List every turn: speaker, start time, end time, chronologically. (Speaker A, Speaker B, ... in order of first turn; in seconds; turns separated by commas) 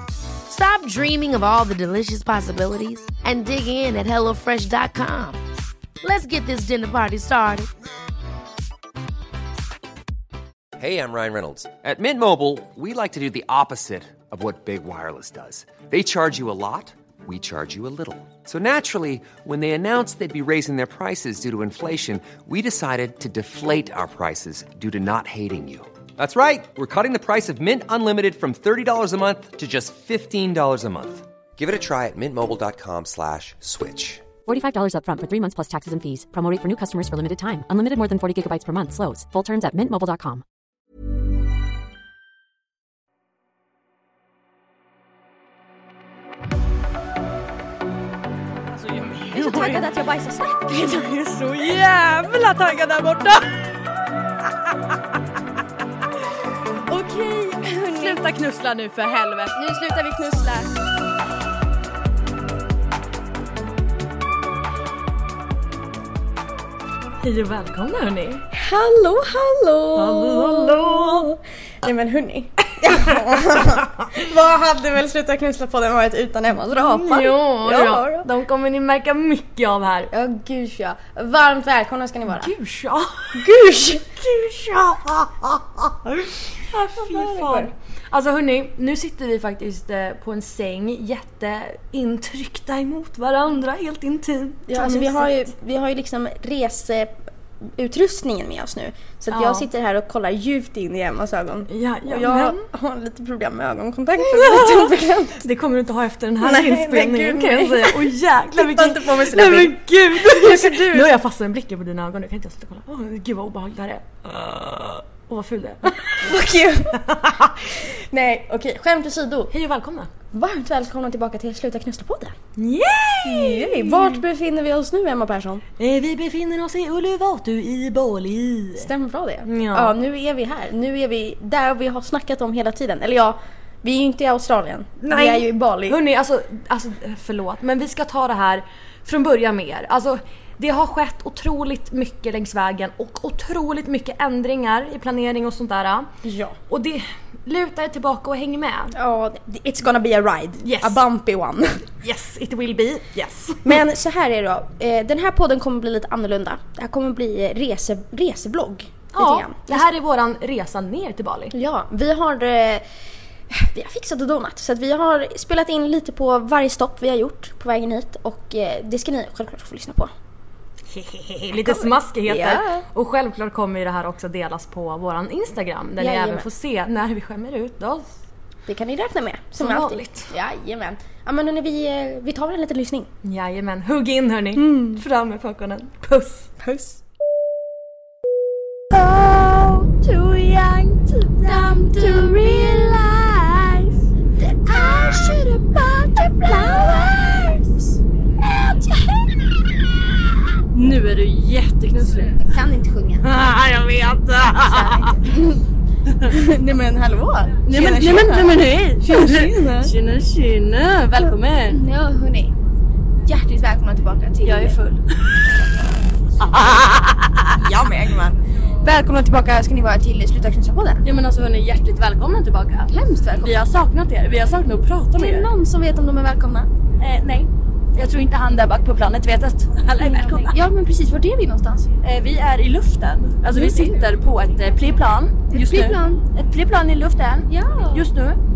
Speaker A: 0.5-5.4, Speaker A: 6.0-7.7, Speaker B: 10.8-34.3, Speaker C: 34.5-40.4, Speaker D: 48.8-49.8, Speaker E: 49.3-51.1, Speaker D: 50.9-53.6, Speaker E: 56.9-58.2, Speaker D: 58.0-59.5, Speaker E: 59.5-60.7, Speaker D: 67.2-68.5, Speaker E: 68.5-78.3, Speaker D: 69.9-71.3, Speaker D: 72.8-73.1, Speaker D: 76.8-80.1, Speaker E: 80.1-82.5, Speaker D: 82.3-95.3, Speaker E: 83.4-84.0, Speaker E: 87.0-87.7, Speaker E: 94.7-97.2, Speaker E: 97.8-105.4, Speaker D: 99.3-99.7, Speaker D: 101.7-102.6, Speaker D: 104.2-116.3, Speaker E: 106.4-111.1, Speaker E: 116.2-117.0, Speaker D: 116.9-117.6, Speaker E: 117.8-119.5, Speaker D: 119.5-120.1, Speaker E: 120.3-122.3, Speaker D: 122.6-124.2, Speaker E: 123.2-125.6, Speaker D: 125.8-128.9, Speaker E: 128.8-136.0, Speaker D: 129.4-129.9, Speaker D: 135.0-146.1, Speaker E: 146.2-146.6, Speaker D: 146.7-148.9, Speaker E: 148.9-151.8, Speaker D: 150.6-151.0, Speaker D: 152.0-153.8, Speaker E: 153.6-159.8, Speaker D: 159.1-161.5, Speaker E: 161.5-162.8, Speaker E: 163.5-170.1, Speaker D: 170.9-178.1, Speaker E: 171.5-172.8, Speaker E: 176.0-176.4, Speaker E: 178.7-183.1, Speaker D: 179.6-180.3, Speaker D: 183.2-186.5, Speaker E: 184.6-185.0, Speaker E: 186.6-187.0, Speaker D: 188.9-194.0, Speaker E: 191.5-192.9, Speaker E: 194.4-195.5, Speaker D: 194.6-197.7, Speaker E: 196.4-197.1, Speaker D: 198.4-198.9, Speaker D: 200.7-202.5, Speaker E: 202.4-203.2, Speaker D: 203.2-205.2, Speaker E: 204.5-205.6, Speaker E: 206.3-209.9, Speaker D: 207.6-211.8, Speaker E: 211.7-212.5, Speaker E: 213.2-214.8, Speaker D: 214.4-215.5, Speaker D: 216.4-217.5, Speaker E: 217.6-221.0, Speaker D: 221.0-225.5, Speaker E: 222.9-223.6, Speaker E: 225.2-226.7, Speaker D: 227.0-230.6, Speaker E: 230.0-231.9, Speaker D: 232.0-238.4, Speaker E: 233.5-233.9, Speaker E: 235.5-236.2, Speaker E: 237.5-238.0